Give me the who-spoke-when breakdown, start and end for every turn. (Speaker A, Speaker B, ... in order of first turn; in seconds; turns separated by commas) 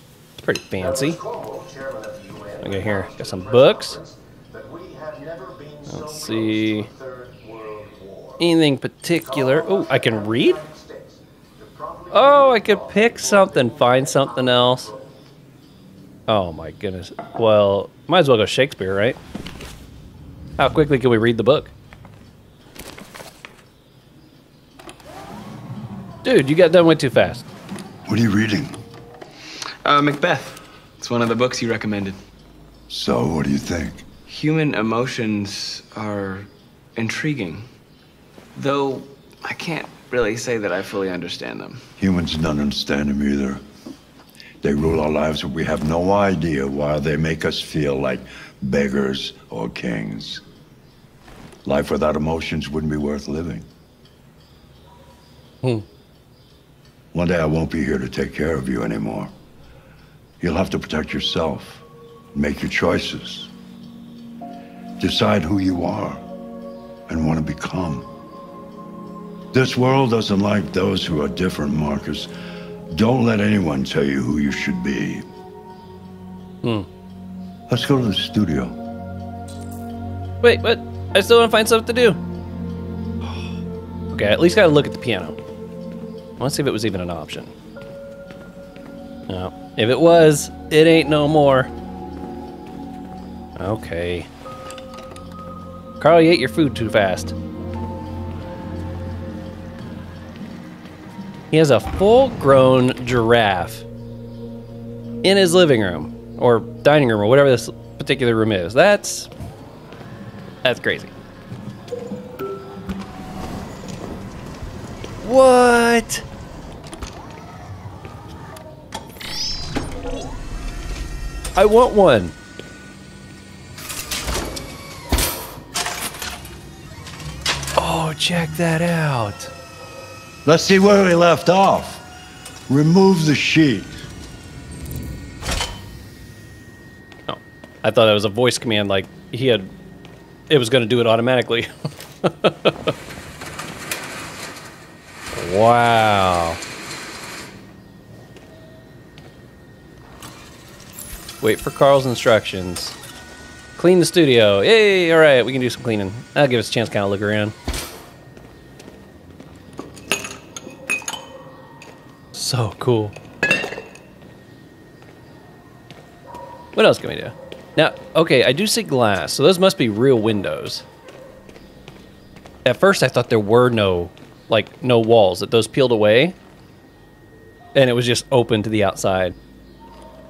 Speaker A: 0.4-1.2, Speaker B: 0.8-8.4, Speaker A: 2.6-4.0, Speaker A: 5.9-6.9, Speaker A: 8.4-10.6, Speaker B: 9.1-15.2, Speaker A: 12.1-14.9, Speaker A: 16.3-19.2, Speaker A: 20.6-21.7, Speaker A: 26.2-27.4, Speaker C: 28.1-28.8, Speaker D: 29.8-32.2, Speaker C: 32.9-34.0, Speaker D: 34.3-37.6, Speaker D: 38.5-41.9, Speaker C: 42.0-43.6, Speaker C: 44.6-50.4, Speaker C: 51.6-53.7, Speaker C: 57.1-59.3, Speaker C: 60.4-63.5, Speaker C: 65.0-66.2, Speaker C: 67.1-68.1, Speaker C: 69.5-72.3, Speaker C: 72.9-75.2, Speaker C: 77.7-78.8, Speaker A: 80.4-82.2, Speaker A: 83.2-83.5, Speaker A: 84.1-85.3, Speaker A: 86.4-87.5, Speaker A: 89.3-91.7, Speaker A: 93.6-94.3, Speaker A: 96.0-97.3, Speaker A: 101.5-103.8, Speaker A: 105.2-109.3, Speaker A: 110.6-111.1, Speaker A: 115.2-116.2, Speaker A: 121.5-122.3, Speaker A: 127.7-129.5, Speaker C: 130.4-132.0, Speaker C: 132.7-134.0, Speaker A: 137.3-139.7, Speaker A: 140.5-141.7, Speaker A: 142.2-142.9, Speaker A: 145.3-146.6, Speaker A: 151.4-152.9, Speaker A: 153.8-157.5, Speaker A: 162.3-163.1, Speaker A: 166.7-170.8, Speaker A: 172.6-176.3, Speaker A: 177.7-179.3